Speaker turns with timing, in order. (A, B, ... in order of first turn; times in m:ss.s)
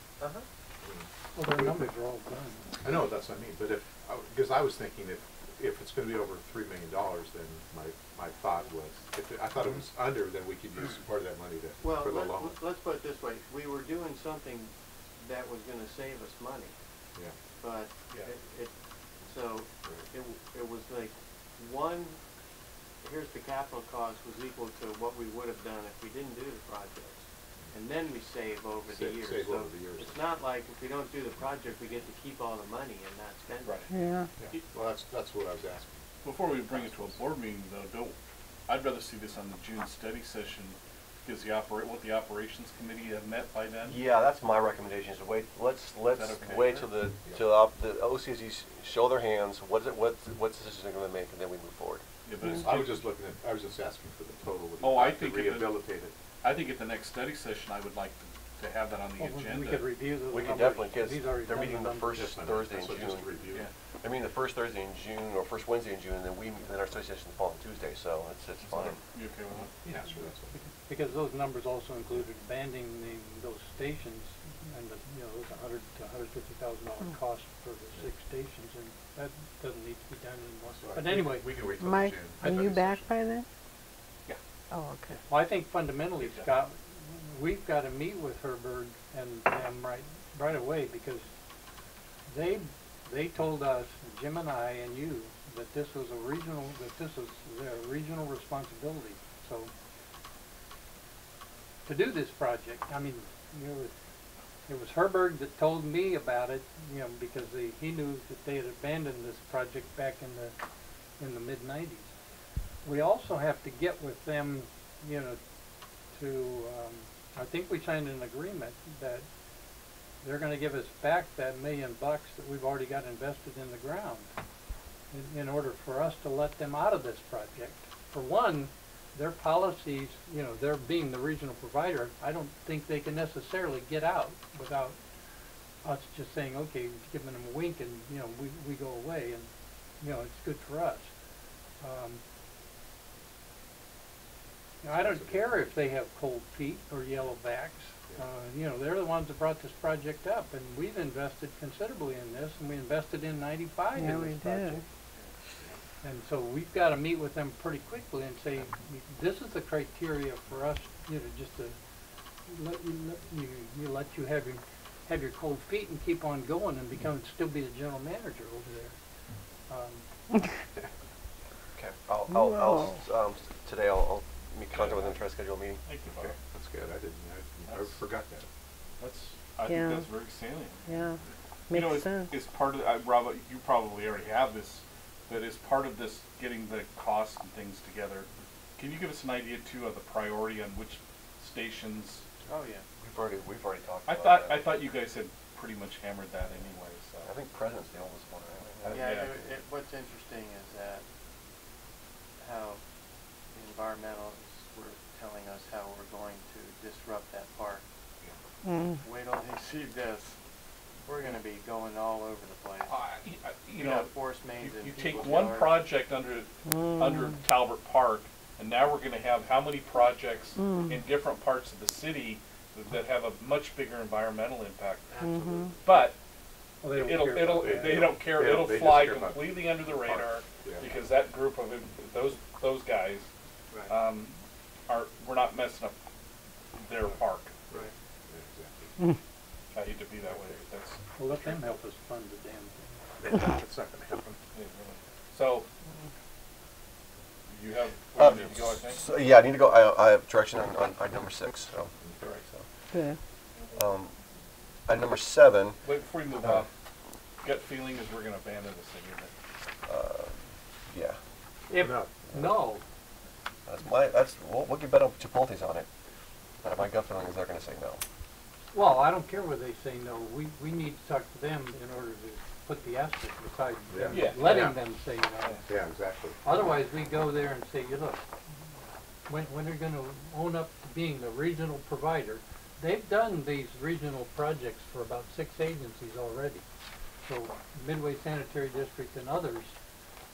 0:00.2-0:00.5 A
0:00.8-0:01.9 B
0:01.4-0:02.8 C
0:02.8-0:12.6 B
0:11.8-0:16.8 A
0:17.6-0:22.2 A
0:23.0-0:33.9 A
0:28.9-0:30.3 B
0:33.9-0:34.3 D
0:34.4-0:36.0 B
0:36.2-0:38.2 E
0:38.7-0:44.0 E
0:43.8-0:52.0 F
0:46.1-0:46.9 E
0:52.2-0:53.0 E
0:52.5-0:56.1 B
0:54.8-0:55.8 E
0:56.4-0:59.9 E
0:59.2-1:02.4 C
1:00.3-1:03.3 F
1:02.1-1:03.7 B
1:04.0-1:09.0 F
1:08.7-1:09.7 E
1:09.7-1:10.6 B
1:10.6-1:21.6 C
1:20.8-1:23.1 B
1:21.8-1:23.5 D
1:22.4-1:22.7 C
1:24.7-1:25.2 D
1:25.3-1:31.3 C
1:26.2-1:26.5 E
1:32.3-1:39.7 C
1:41.9-1:43.9 C
1:44.7-1:50.6 C
1:51.2-1:52.1 C
1:52.8-1:55.4 C
1:56.1-1:59.2 C
2:00.2-2:04.3 C
2:05.1-2:15.0 C
2:15.8-2:19.5 C
2:20.0-2:21.1 C
2:21.8-2:22.2 C
2:24.8-2:34.8 C
2:25.0-2:25.7 B
2:34.0-2:34.8 D
2:36.0-2:41.8 C
2:42.5-2:49.0 C
2:49.7-2:50.0 C
2:51.7-2:55.8 F
2:52.3-2:53.0 D
2:54.7-2:55.2 E
2:55.9-2:56.4 E
2:56.1-2:58.5 B
2:57.7-2:58.0 E
2:59.0-3:00.9 E
2:59.6-3:00.1 D
3:00.9-3:01.2 D
3:01.7-3:02.4 D
3:01.7-3:12.2 E
3:12.5-3:12.8 A
3:13.0-3:14.8 F
3:14.1-3:17.3 E
3:17.2-3:19.5 F
3:18.8-3:19.5 E
3:18.9-3:21.0 A
3:22.4-3:22.8 A
3:23.5-3:27.8 A
3:28.7-3:29.0 D
3:29.0-3:30.4 A
3:31.1-3:33.0 A
3:32.9-3:45.1 E
3:33.8-3:35.9 A
3:36.7-3:37.4 D
3:40.6-3:41.0 D
3:45.1-3:46.0 A
3:45.2-3:45.7 D
3:45.8-3:46.2 E
3:46.8-3:48.1 C
3:46.9-3:53.3 E
3:47.6-3:51.0 B
3:53.9-3:54.4 E
3:54.9-3:56.0 E
3:56.8-3:57.6 E
3:57.7-3:58.9 B
3:59.7-4:01.5 E
4:00.3-4:00.6 B
4:01.2-4:03.0 C
4:03.2-4:04.4 B
4:04.5-4:05.7 E
4:07.5-4:09.0 E
4:08.2-4:11.9 F
4:12.0-4:12.3 B
4:13.7-4:14.1 F
4:14.9-4:15.8 F
4:15.8-4:16.7 E
4:17.4-4:19.3 E
4:19.9-4:21.2 F
4:21.7-4:22.8 C
4:21.8-4:22.1 B
4:22.3-4:22.6 F
4:23.7-4:25.9 F
4:26.6-4:28.0 F
4:28.7-4:35.6 C
4:33.9-4:34.8 B
4:34.1-4:34.7 E
4:35.7-4:36.4 B
4:36.4-4:38.2 C
4:39.3-4:46.6 C
4:47.2-4:49.7 C